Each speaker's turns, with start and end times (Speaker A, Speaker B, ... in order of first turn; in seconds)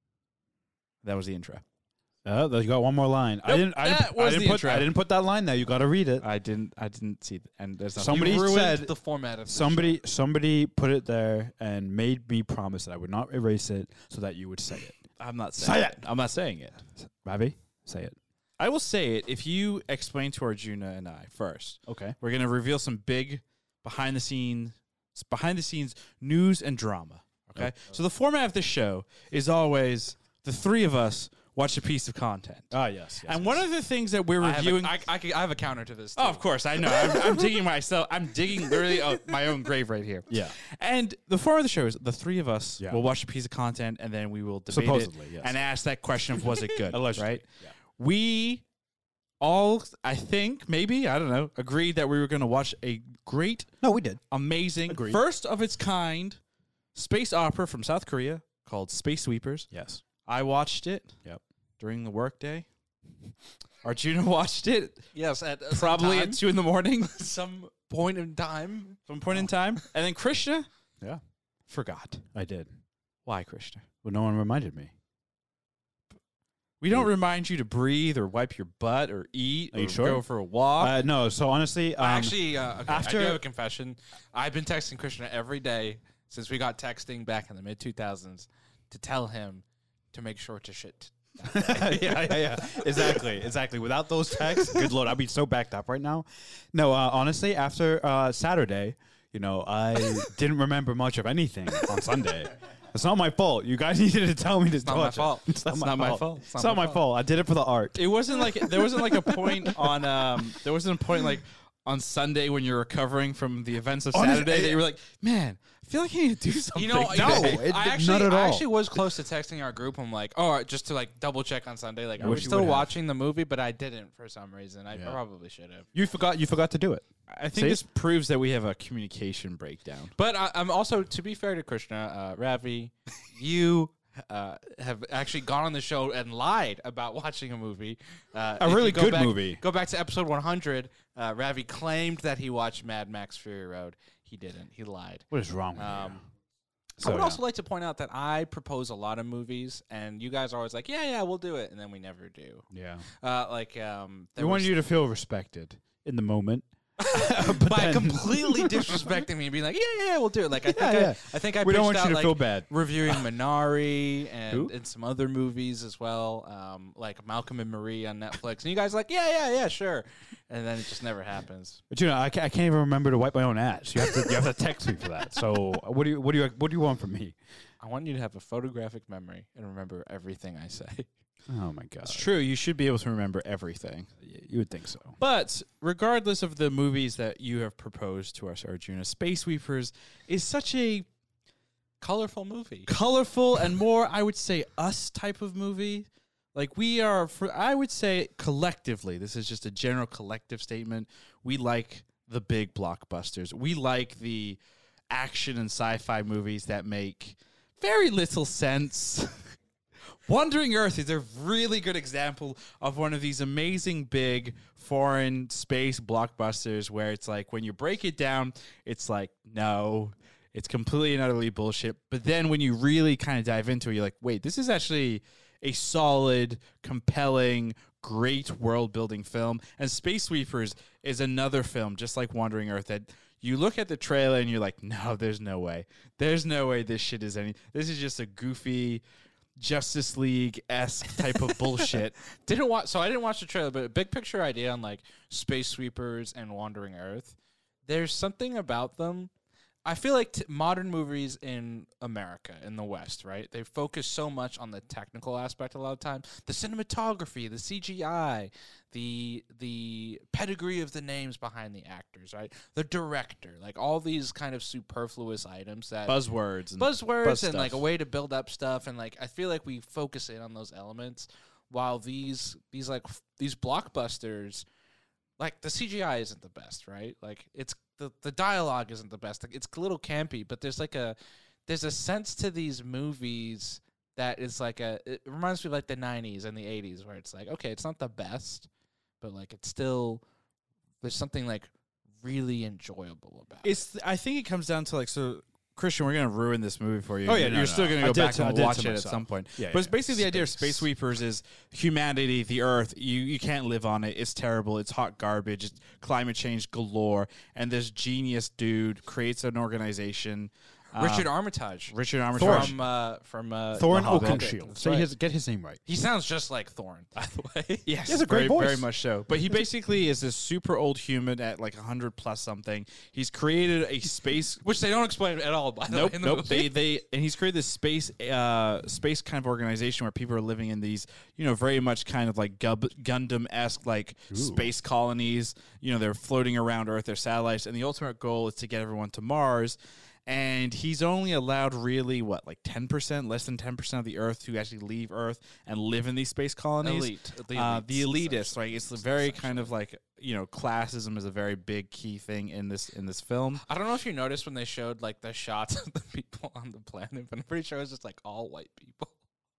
Speaker A: 1.0-1.6, 3.4-4.9, 6.2-8.7, 15.2-16.8, 18.6-35.0, 36.1-48.6, 49.4-53.7, 54.3-56.4, 56.9-59.7, 60.2-61.2, 61.8-62.7, 63.8-65.0, 65.7-67.1, 69.1-70.7, 71.7-72.2, 73.2-73.8, 76.8-81.0, 105.7-106.2, 107.9-117.6, 127.3-130.1, 182.0-184.1, 185.2-191.1, 192.9-204.6, 205.1-209.5, 210.2-239.0, 239.6-242.2, 266.1-267.8, 293.6-311.3, 311.9-312.8, 313.9-314.4, 317.8-324.6, 325.9-353.6
Speaker B: 2.2-6.2, 8.0-8.9, 9.5-15.1, 15.6-16.0, 17.2-18.2, 21.9-22.1, 32.7-33.6, 40.3-40.5, 44.7-45.5, 46.9-47.7, 53.8-54.2, 54.9-55.2, 59.7-60.0, 72.3-72.7, 74.0-74.9, 79.7-80.2, 80.8-83.4, 91.4-110.6, 114.1-114.8, 117.1-119.0, 122.2-122.9, 124.9-125.2, 125.9-127.8, 138.6-139.6, 145.3-146.2, 147.0-147.4, 152.7-153.1, 154.4-159.2, 160.7-163.3, 171.9-177.3, 181.5-182.3, 184.2-185.2, 297.2-300.9, 312.3-312.8, 313.7-315.8, 318.0-318.9, 334.3-334.7
Speaker C: 8.0-10.0, 34.4-37.4, 38.7-39.3, 65.1-66.4, 67.0-69.0, 82.0-93.3, 94.5-94.9, 104.8-107.0, 116.7-125.8, 130.2-146.2, 147.0-152.7, 153.2-154.7, 157.0-171.8, 177.8-181.1, 192.0-192.9, 241.6-249.3, 249.8-266.2, 266.8-274.6, 275.4-288.7, 289.2-290.2, 291.0-291.7, 292.2-293.8, 310.9-315.1, 315.9-317.9, 324.6-326.8, 346.8-349.7, 353.6-359.1